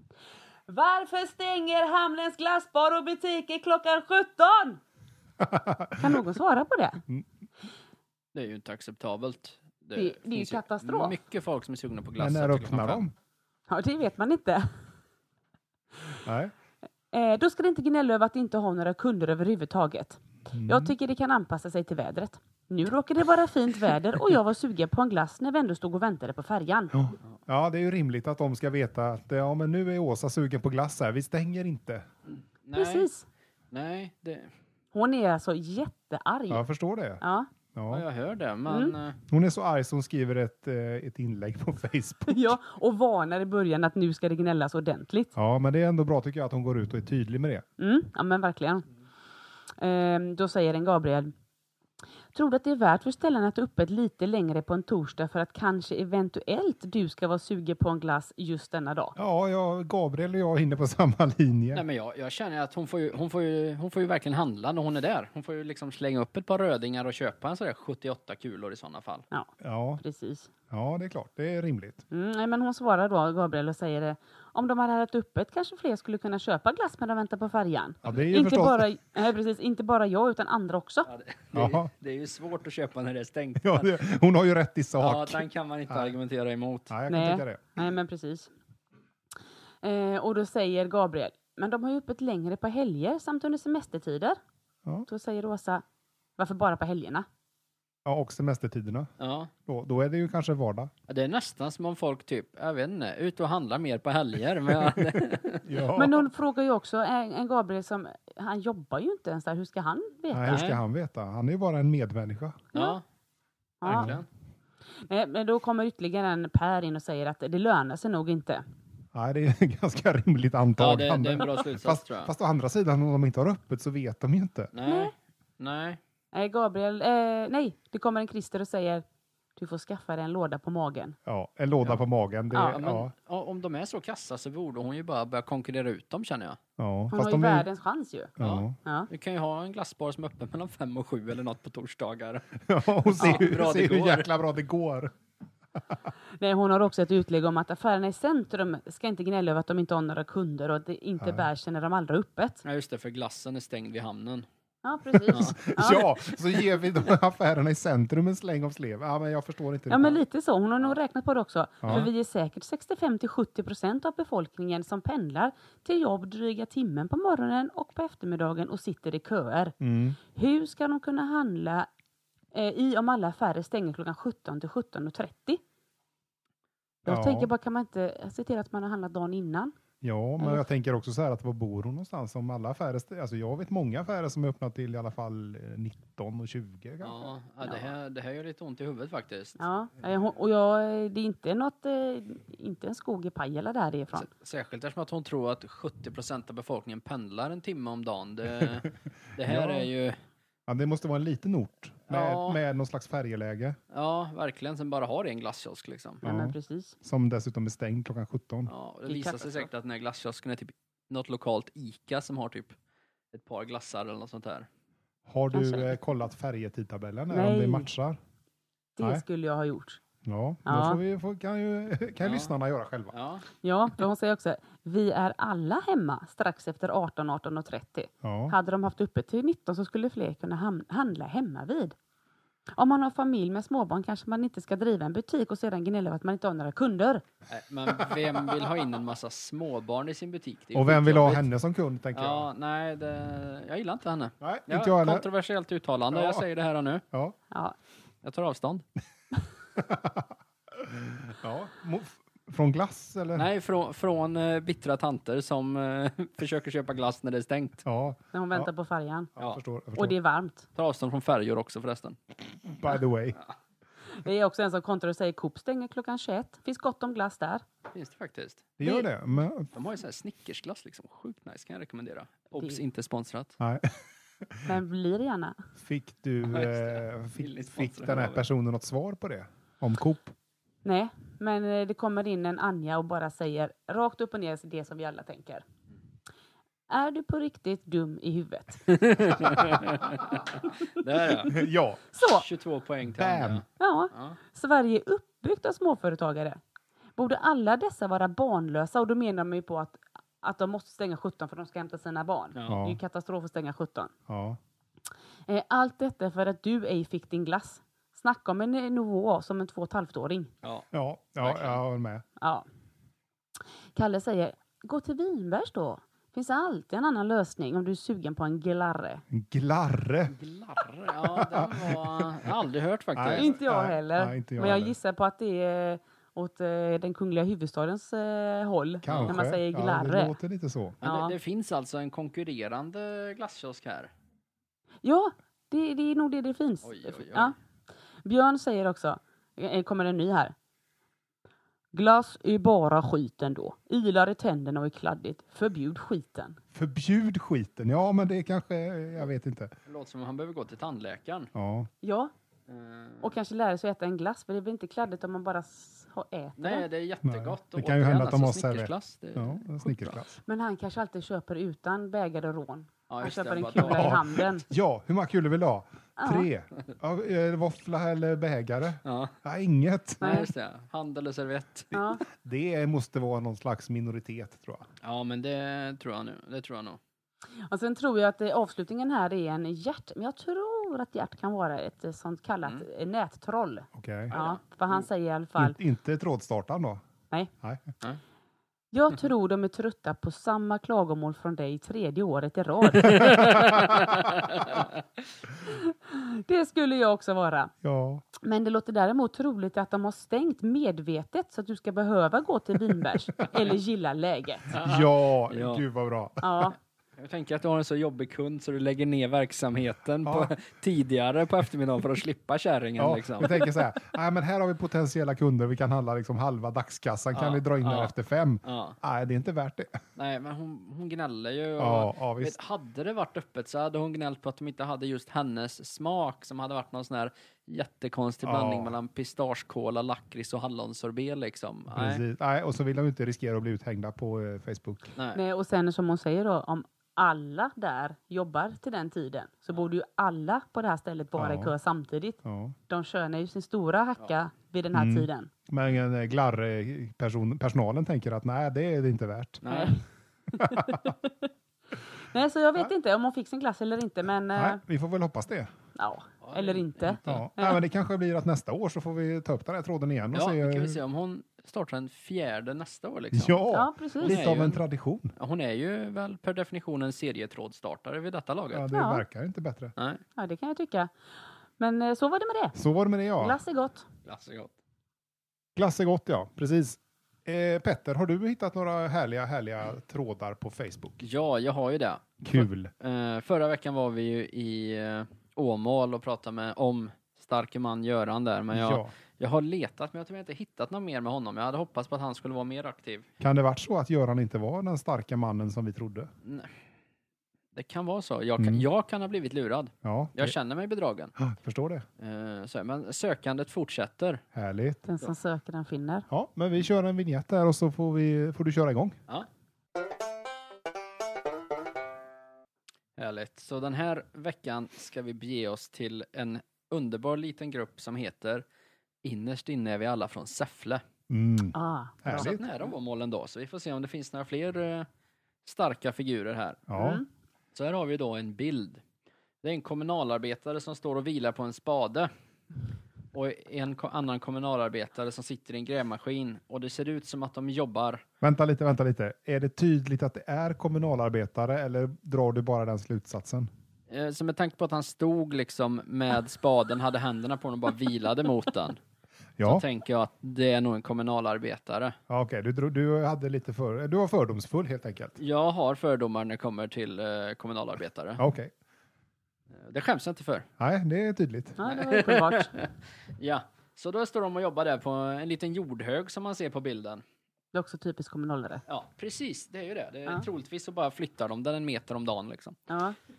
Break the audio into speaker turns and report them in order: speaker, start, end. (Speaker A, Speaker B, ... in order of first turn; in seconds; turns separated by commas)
Speaker A: 0.7-4.8, Speaker B: 5.4-6.2, Speaker A: 6.0-7.0, Speaker C: 8.3-13.0, Speaker A: 10.0-11.2, Speaker B: 12.2-13.1, Speaker A: 13.7-14.7, Speaker B: 16.2-16.5, Speaker A: 17.1-27.0, Speaker B: 20.5-20.9, Speaker B: 26.9-32.1, Speaker C: 32.3-33.1, Speaker A: 32.7-33.3, Speaker C: 33.7-34.5, Speaker A: 34.9-36.7, Speaker B: 36.5-37.2, Speaker A: 37.2-37.5, Speaker B: 37.7-38.0, Speaker C: 37.9-39.2, Speaker A: 38.7-39.0, Speaker B: 39.3-42.6, Speaker A: 42.3-45.3, Speaker B: 45.4-47.6, Speaker A: 47.8-48.9, Speaker A: 49.8-51.3, Speaker A: 52.3-59.2, Speaker B: 59.2-61.8, Speaker C: 61.7-69.3, Speaker A: 69.3-70.5, Speaker B: 69.6-70.0, Speaker B: 70.7-72.0, Speaker A: 72.1-81.1, Speaker B: 78.0-78.8, Speaker C: 81.1-84.0, Speaker B: 81.5-81.9, Speaker B: 83.6-86.1, Speaker C: 85.0-86.9, Speaker B: 86.9-87.6, Speaker A: 87.1-88.5, Speaker A: 89.8-94.4, Speaker A: 95.1-95.8, Speaker A: 96.4-97.3, Speaker B: 98.0-99.1, Speaker C: 99.2-99.5, Speaker B: 99.7-100.9, Speaker C: 101.1-105.7, Speaker B: 105.6-106.2, Speaker A: 106.0-110.7, Speaker B: 110.3-112.7, Speaker C: 110.5-110.8, Speaker C: 112.7-113.0, Speaker A: 113.8-114.1, Speaker C: 113.8-114.3, Speaker B: 113.9-114.2, Speaker A: 115.0-118.6, Speaker B: 119.1-124.7, Speaker C: 120.8-122.3, Speaker C: 124.7-126.0, Speaker A: 124.8-125.1, Speaker A: 126.3-129.0, Speaker A: 129.6-131.2, Speaker B: 131.3-133.1, Speaker A: 132.5-132.8, Speaker C: 132.7-136.6, Speaker B: 136.8-137.7, Speaker A: 137.1-138.3, Speaker B: 138.4-138.8, Speaker C: 138.4-144.3, Speaker B: 142.7-145.1, Speaker A: 146.4-152.6, Speaker B: 151.2-151.5, Speaker C: 152.6-154.5, Speaker A: 154.8-156.0, Speaker B: 155.2-160.2, Speaker C: 155.3-156.6, Speaker A: 159.9-169.8, Speaker B: 161.8-162.1, Speaker B: 169.8-170.2, Speaker A: 170.3-171.9, Speaker A: 172.5-175.6, Speaker A: 177.1-179.7, Speaker B: 177.1-177.5, Speaker B: 180.0-187.2, Speaker A: 180.4-180.7, Speaker C: 187.0-189.6, Speaker A: 189.6-194.3, Speaker C: 194.2-200.2, Speaker B: 199.4-199.9, Speaker B: 200.7-203.8, Speaker C: 202.1-202.6, Speaker C: 203.9-206.2, Speaker A: 206.2-206.9, Speaker B: 206.2-208.7, Speaker C: 208.7-212.8, Speaker A: 209.1-209.7, Speaker C: 213.3-214.7, Speaker B: 215.3-218.2, Speaker A: 215.5-215.9, Speaker A: 217.3-217.9, Speaker A: 219.0-220.0, Speaker B: 220.2-223.1, Speaker A: 220.7-221.0, Speaker C: 222.2-222.5, Speaker C: 223.1-223.4, Speaker A: 223.6-232.0, Speaker B: 228.2-228.5, Speaker A: 232.8-237.2, Speaker C: 237.5-241.4, Speaker B: 238.0-238.7, Speaker B: 240.7-242.5, Speaker C: 242.1-247.0, Speaker B: 244.4-245.3, Speaker B: 246.1-246.4, Speaker A: 247.5-247.8, Speaker C: 248.2-248.8, Speaker B: 249.8-253.5, Speaker C: 253.3-257.8, Speaker B: 257.8-258.7, Speaker A: 258.3-259.3, Speaker B: 259.4-260.1, Speaker A: 259.9-260.7, Speaker C: 260.8-262.2, Speaker B: 262.7-263.4, Speaker A: 264.2-267.6, Speaker C: 267.9-268.7, Speaker B: 268.8-269.7, Speaker A: 268.8-269.1, Speaker C: 269.7-273.6, Speaker B: 273.6-274.7, Speaker A: 274.7-275.6, Speaker B: 275.8-280.3, Speaker C: 276.5-278.4, Speaker A: 280.9-285.6, Speaker A: 286.9-289.3, Speaker C: 288.9-291.6, Speaker B: 289.4-289.8, Speaker B: 291.5-292.0, Speaker A: 292.1-292.5, Speaker C: 292.2-294.4, Speaker B: 293.2-293.6, Speaker A: 293.8-296.6, Speaker A: 297.2-304.1, Speaker C: 302.6-302.8, Speaker B: 302.7-303.0, Speaker B: 304.3-304.6, Speaker A: 305.5-310.5, Speaker B: 310.9-312.2, Speaker C: 311.4-311.8, Speaker A: 312.4-312.7, Speaker A: 313.9-319.2, Speaker B: 319.3-320.4, Speaker C: 320.3-323.5, Speaker B: 321.4-322.5, Speaker B: 323.1-324.9, Speaker A: 323.4-330.3, Speaker B: 329.0-331.0, Speaker C: 329.1-329.4, Speaker C: 331.0-334.1, Speaker A: 331.0-331.4, Speaker A: 335.0-337.6, Speaker C: 336.8-337.5, Speaker A: 338.2-340.6, Speaker A: 341.9-346.6, Speaker B: 346.7-349.7, Speaker C: 349.9-351.5, Speaker B: 351.6-351.9, Speaker A: 352.0-352.3, Speaker C: 352.7-353.4, Speaker A: 353.2-356.9, Speaker C: 356.6-360.2, Speaker B: 357.2-360.4, Speaker A: 360.5-364.7, Speaker C: 363.1-364.2, Speaker B: 363.8-370.3, Speaker A: 366.2-366.5, Speaker C: 369.1-369.4, Speaker A: 370.2-370.5, Speaker C: 370.2-371.9, Speaker A: 371.9-372.2, Speaker B: 372.2-374.9, Speaker C: 375.0-377.0, Speaker A: 377.7-385.8, Speaker B: 383.9-384.3, Speaker C: 384.3-384.6, Speaker B: 385.6-387.0, Speaker B: 387.6-387.9, Speaker A: 388.9-394.0, Speaker C: 392.9-395.0, Speaker B: 393.2-394.7, Speaker A: 395.7-397.7, Speaker B: 397.8-398.2, Speaker A: 398.4-404.7, Speaker C: 404.7-405.8, Speaker B: 404.7-406.7, Speaker A: 406.4-406.8, Speaker C: 407.2-413.7, Speaker B: 410.2-410.5, Speaker B: 413.0-420.0, Speaker C: 417.3-418.1, Speaker C: 418.6-419.0, Speaker C: 420.2-432.2, Speaker B: 421.8-422.6, Speaker B: 428.4-428.9, Speaker B: 431.9-435.1, Speaker C: 435.2-435.4, Speaker A: 435.3-445.5, Speaker B: 441.4-441.7, Speaker B: 442.4-442.8, Speaker B: 444.9-449.6, Speaker C: 449.6-449.9, Speaker A: 449.7-450.0, Speaker A: 450.5-451.5, Speaker B: 450.6-451.1, Speaker A: 452.3-454.8, Speaker B: 454.5-455.7, Speaker A: 455.9-457.8, Speaker C: 456.4-457.4, Speaker B: 457.2-461.0, Speaker C: 460.3-463.6, Speaker B: 463.3-465.3, Speaker A: 463.7-464.4, Speaker C: 464.2-464.8, Speaker C: 465.4-468.9, Speaker B: 468.7-469.9, Speaker A: 468.9-469.2, Speaker C: 470.0-470.2, Speaker A: 470.4-471.1, Speaker A: 471.8-472.8, Speaker B: 472.8-473.6, Speaker A: 473.4-474.1, Speaker C: 474.3-474.7, Speaker B: 475.8-481.2, Speaker C: 481.2-493.3, Speaker B: 482.4-482.9, Speaker B: 488.7-489.1, Speaker B: 493.4-496.3, Speaker C: 496.4-496.7, Speaker C: 497.7-501.3, Speaker B: 498.6-498.9, Speaker B: 500.0-500.6, Speaker B: 501.4-502.1, Speaker C: 502.2-504.4, Speaker B: 504.5-505.0, Speaker A: 505.1-506.3, Speaker B: 506.3-509.2, Speaker C: 513.2-518.6, Speaker C: 519.2-521.0, Speaker B: 521.3-522.6, Speaker A: 521.7-522.5, Speaker C: 522.3-525.1, Speaker C: 525.6-526.8, Speaker B: 526.9-527.2, Speaker A: 526.9-527.3, Speaker C: 527.7-529.0, Speaker C: 529.6-532.3, Speaker C: 533.3-538.2, Speaker B: 538.4-543.7, Speaker C: 544.1-549.0, Speaker B: 549.6-549.9, Speaker C: 549.6-552.2, Speaker B: 552.3-555.4, Speaker C: 555.4-558.4, Speaker B: 558.4-558.7, Speaker C: 559.8-560.7, Speaker B: 560.8-561.8, Speaker A: 561.8-562.7, Speaker C: 561.9-567.2, Speaker A: 567.7-568.8, Speaker C: 568.9-572.8, Speaker A: 572.9-573.2